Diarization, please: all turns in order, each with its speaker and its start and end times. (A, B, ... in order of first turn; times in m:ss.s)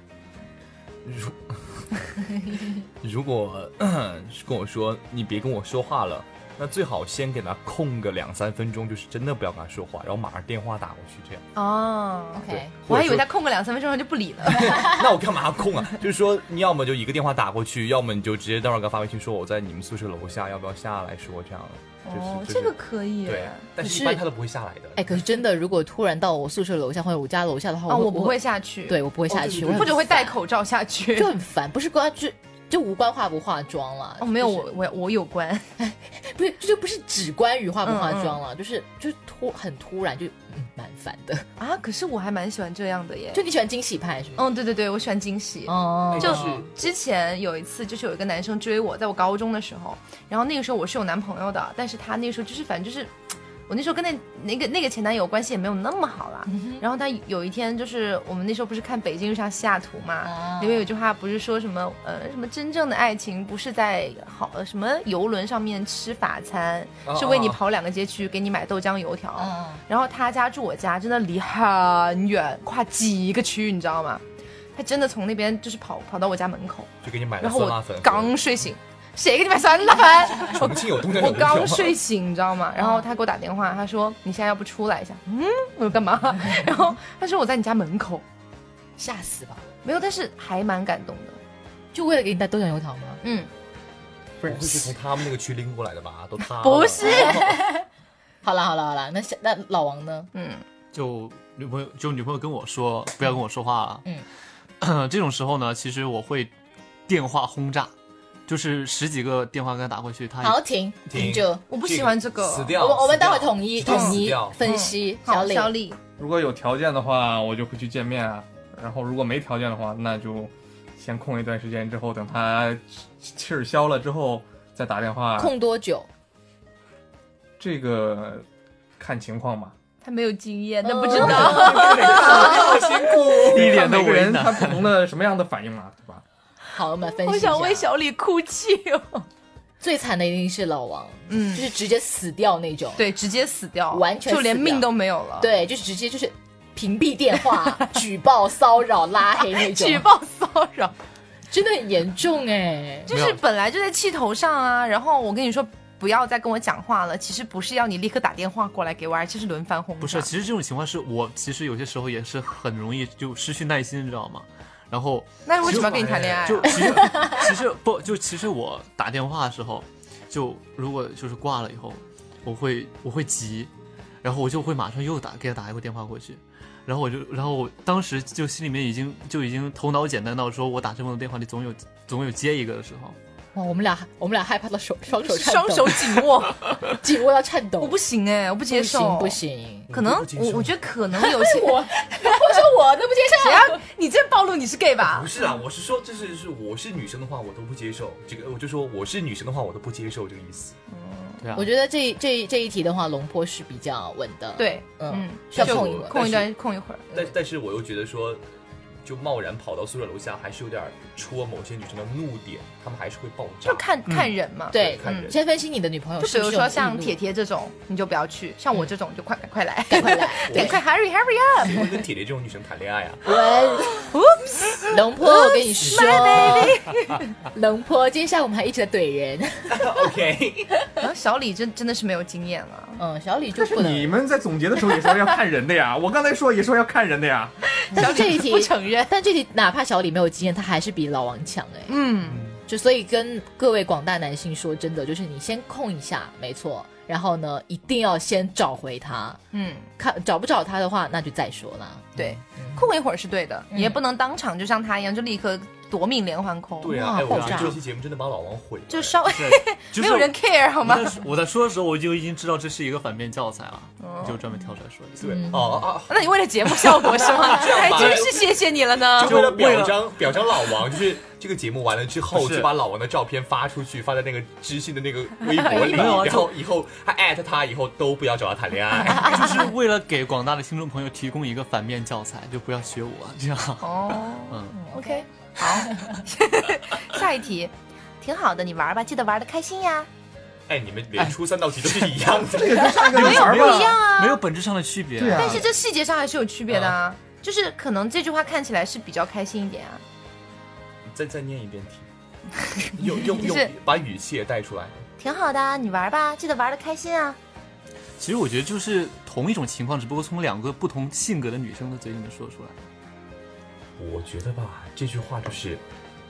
0:01.0-0:11.5 A
0:11.6-0:15.1 B
0:12.3-0:12.7 C
0:12.5-0:13.3 A
0:14.5-0:25.1 A
0:22.0-0:24.2 B
0:25.0-0:30.4 C
0:27.9-0:31.4 B
0:29.3-0:29.9 A
0:31.2-0:34.7 C
0:34.2-0:35.7 B
0:35.8-0:41.5 C
0:37.8-0:38.4 B
0:41.6-0:43.4 B
0:43.3-0:44.5 C
0:44.4-0:53.1 B
0:45.7-0:46.7 C
0:46.1-0:46.8 A
0:53.7-1:14.2 B
0:56.5-0:56.8 C
1:00.2-1:00.9 C
1:07.0-1:07.6 A
1:09.4-1:09.8 C
1:14.8-1:28.2 B
1:17.0-1:18.4 A
1:20.5-1:22.0 A
1:22.8-1:23.1 C
1:29.0-1:29.6 C
1:29.8-1:31.4 B
1:31.9-1:33.2 C
1:33.2-1:33.5 B
1:34.4-1:34.9 D
1:34.4-1:37.5 A
1:36.6-1:37.5 B
1:37.0-1:37.9 C
1:38.4-1:40.3 C
1:40.3-1:40.6 B
1:40.9-1:44.0 E
1:44.8-1:46.5 E
1:47.1-1:47.9 E
1:48.5-1:50.6 E
1:50.4-1:51.6 C
1:51.1-1:54.6 A
1:51.7-1:52.8 B
1:52.7-1:55.8 C
1:53.8-1:56.0 B
1:56.2-2:05.5 D
2:05.4-2:06.1 C
2:07.6-2:08.5 D
2:09.0-2:09.8 D
2:10.0-2:12.9 B
2:10.8-2:12.3 C
2:11.4-2:16.2 D
2:12.0-2:13.8 A
2:13.1-2:14.9 E
2:16.7-2:17.9 C
2:17.2-2:19.3 B
2:19.8-2:23.0 C
2:21.3-2:21.7 B
2:23.0-2:25.5 B
2:23.9-2:30.1 C
2:29.5-2:31.0 B
2:31.5-2:33.1 C
2:33.1-2:40.3 B
2:33.1-2:33.4 E
2:40.0-2:53.7 E
2:45.5-2:47.3 B
2:45.6-2:46.6 A
2:46.8-2:47.4 C
2:54.2-3:03.2 E
3:03.6-3:06.3 C
3:05.1-3:06.9 B
3:06.8-3:08.0 C
3:07.8-3:12.6 B
3:08.7-3:09.9 C
3:09.9-3:10.8 A
3:11.2-3:13.8 C
3:13.4-3:15.4 B
3:15.0-3:20.8 A
3:20.9-3:21.4 B
3:21.4-3:21.7 E
3:21.5-3:26.2 C
3:24.6-3:27.1 B
3:25.6-3:26.5 A
3:27.1-3:28.4 A
3:29.0-3:33.9 A
3:33.6-3:35.4 B
3:34.7-3:37.2 C
3:34.7-3:35.4 A
3:36.2-3:42.0 B
3:39.9-3:40.8 C
3:40.5-3:40.8 A
3:41.6-3:43.2 A
3:43.2-3:44.1 C
3:44.0-3:47.3 B
3:44.9-3:46.8 C
3:47.4-3:49.9 C
3:49.7-3:50.7 A
3:51.0-3:53.0 B
3:53.0-3:54.2 C
3:53.6-3:57.6 D
3:57.8-3:59.1 B
3:57.9-4:02.0 C
4:01.9-4:02.5 B
4:02.3-4:02.6 E
4:02.7-4:09.4 C
4:09.5-4:09.9 B
4:10.0-4:12.9 C
4:12.2-4:17.7 B
4:13.7-4:14.0 C
4:16.8-4:19.2 A
4:16.8-4:17.8 C
4:17.3-4:17.7 E
4:18.9-4:21.2 B
4:19.3-4:25.2 E
4:24.0-4:24.4 B
4:25.2-4:26.3 A
4:25.2-4:25.9 C
4:26.1-4:29.4 B
4:26.8-4:28.3 E
4:27.2-4:28.6 A
4:29.2-4:39.7 A
4:29.2-4:30.1 E
4:32.3-4:32.8 E
4:35.7-4:36.6 E
4:35.8-4:36.3 B
4:39.1-4:44.8 E
4:43.8-4:50.1 B
4:44.7-4:46.2 C
4:50.7-4:53.1 A
4:51.2-4:52.2 E
4:52.5-4:54.0 D
4:52.9-4:55.7 E
4:53.1-4:54.4 B
4:55.2-4:55.7 D
4:55.3-5:00.0 B
4:56.7-4:57.0 E
5:01.1-5:02.1 A
5:02.8-5:03.7 B
5:03.0-5:05.1 A
5:05.2-5:07.4 B
5:08.2-5:12.8 E
5:14.0-5:15.8 A